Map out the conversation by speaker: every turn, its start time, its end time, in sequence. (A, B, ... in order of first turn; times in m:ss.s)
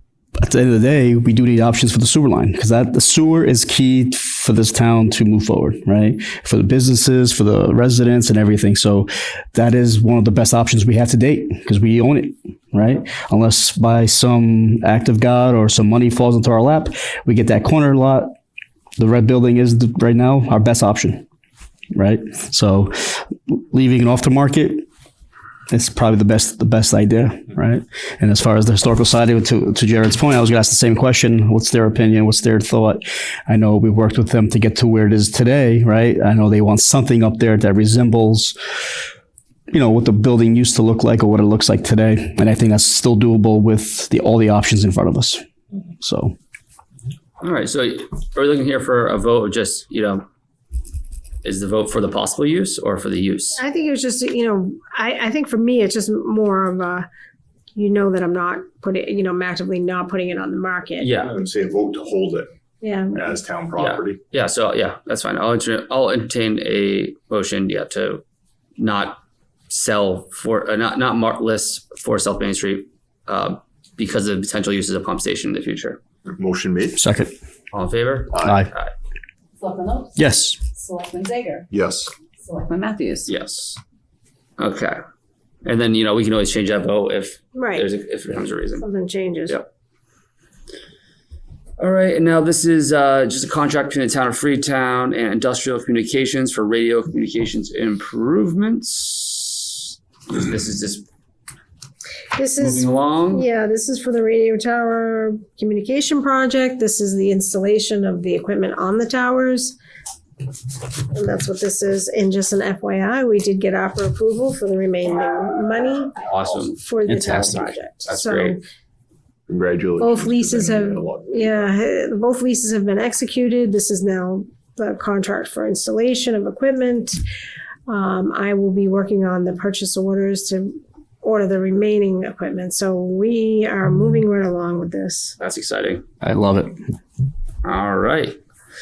0:00.4-0:18.3 A
0:19.0-0:21.2 A
0:21.9-0:24.8 A
0:25.7-0:38.6 A
0:39.7-0:45.4 A
0:46.0-0:46.3 A
0:47.4-0:50.2 B
0:51.4-0:53.6 B
0:53.6-0:57.1 C
0:57.8-1:01.1 C
1:01.0-1:01.3 B
1:01.2-1:02.5 D
1:02.8-1:03.3 C
1:03.1-1:04.2 D
1:03.8-1:08.2 B
1:08.8-1:09.2 B
1:09.7-1:16.0 B
1:16.2-1:17.0 D
1:17.0-1:17.3 A
1:17.7-1:18.9 B
1:18.3-1:18.6 D
1:18.4-1:18.7 A
1:19.6-1:21.7 E
1:20.2-1:20.6 A
1:21.7-1:22.1 D
1:22.4-1:23.3 E
1:23.3-1:23.8 B
1:24.6-1:25.0 B
1:25.6-1:28.8 B
1:27.5-1:27.8 C
1:28.8-1:29.6 C
1:31.8-1:41.0 B
1:42.3-1:49.8 C
1:42.6-1:43.4 B
1:51.1-1:56.2 C
1:56.3-1:57.3 B
1:56.7-1:58.6 C
1:57.1-1:57.8 A
1:58.0-1:58.6 B
1:59.5-2:01.6 D
2:00.0-2:07.2 C
2:07.9-2:15.4 C
2:15.4-2:16.0 B
2:16.2-2:16.8 A
2:17.6-2:18.4 B